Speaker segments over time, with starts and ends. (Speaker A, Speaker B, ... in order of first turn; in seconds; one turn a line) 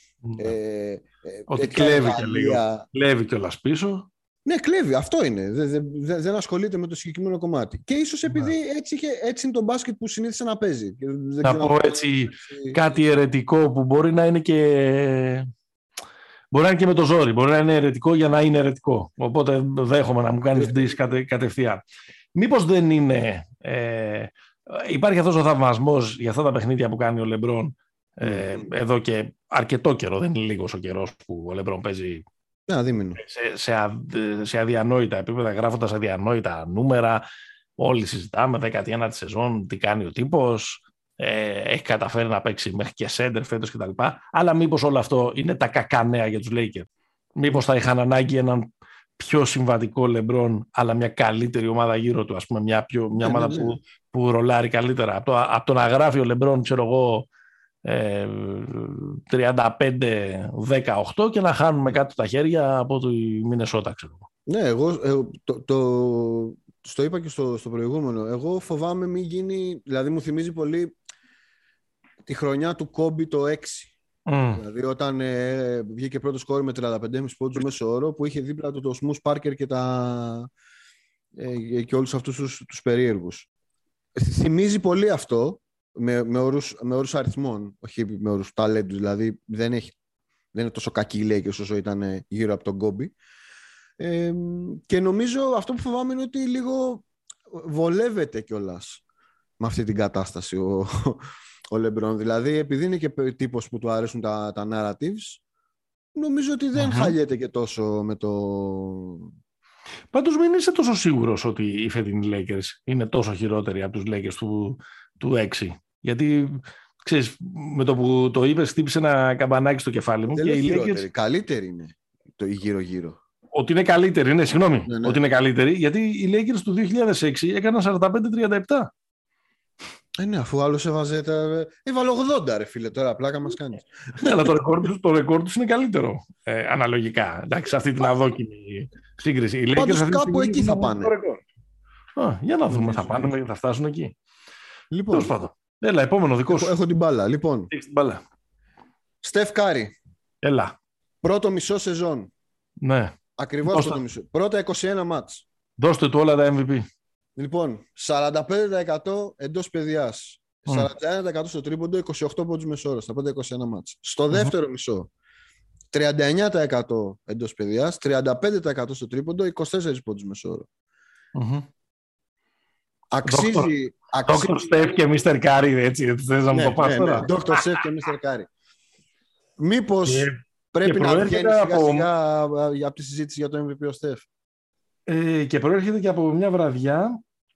Speaker A: 0.2-0.5
Speaker B: 0.4-2.9
Speaker A: 1.5-4.1
Speaker B: 4.5-12.8
Speaker A: 8.3-8.5
Speaker A: 11.4-15.5
Speaker A: 16.5-21.8
Speaker B: 20.5-20.9
Speaker A: 22.4-32.2
Speaker B: 28.2-28.6
Speaker B: 32.7-33.2
Speaker A: 33.2-37.2
Speaker A: 37.8-57.3
Speaker B: 53.1-53.8
Speaker A: 57.9-64.2
Speaker B: 64.5-70.9
Speaker B: 72.2-73.9
Speaker A: 74.3-74.6
Speaker B: 74.5-80.5
Speaker B: 81.4-83.5
Speaker B: 84.2-90.0
Speaker B: 90.5-93.1
Speaker B: 94.0-99.0
Speaker B: 99.6-105.4
Speaker B: 106.1-109.3
Speaker A: 106.7-107.1
Speaker A: 110.1-121.0
Speaker B: 120.3-123.2
Speaker A: 123.5-128.9
Speaker B: 124.9-125.2
Speaker B: 130.2-133.9
Speaker A: 134.2-141.4
Speaker B: 139.8-141.1
Speaker A: 142.2-144.2
Speaker B: 142.7-143.2
Speaker B: 144.9-145.3
Speaker A: 145.1-146.7
Speaker B: 146.5-147.7
Speaker A: 147.7-148.2
Speaker B: 149.2-149.9
Speaker A: 150.4-150.7
Speaker B: 151.2-152.3
Speaker A: 152.8-153.1
Speaker B: 153.4-155.4
Speaker A: 153.7-154.0
Speaker A: 155.8-156.8
Speaker B: 157.4-165.1
Speaker B: 165.9-170.7
Speaker A: 171.3-171.7
Speaker B: 173.1-174.6
Speaker A: 173.3-173.7
Speaker A: 174.2-177.6
Speaker B: 176.5-178.5
Speaker B: 179.6-184.3
Speaker A: 180.1-182.1
Speaker A: 185.1-187.2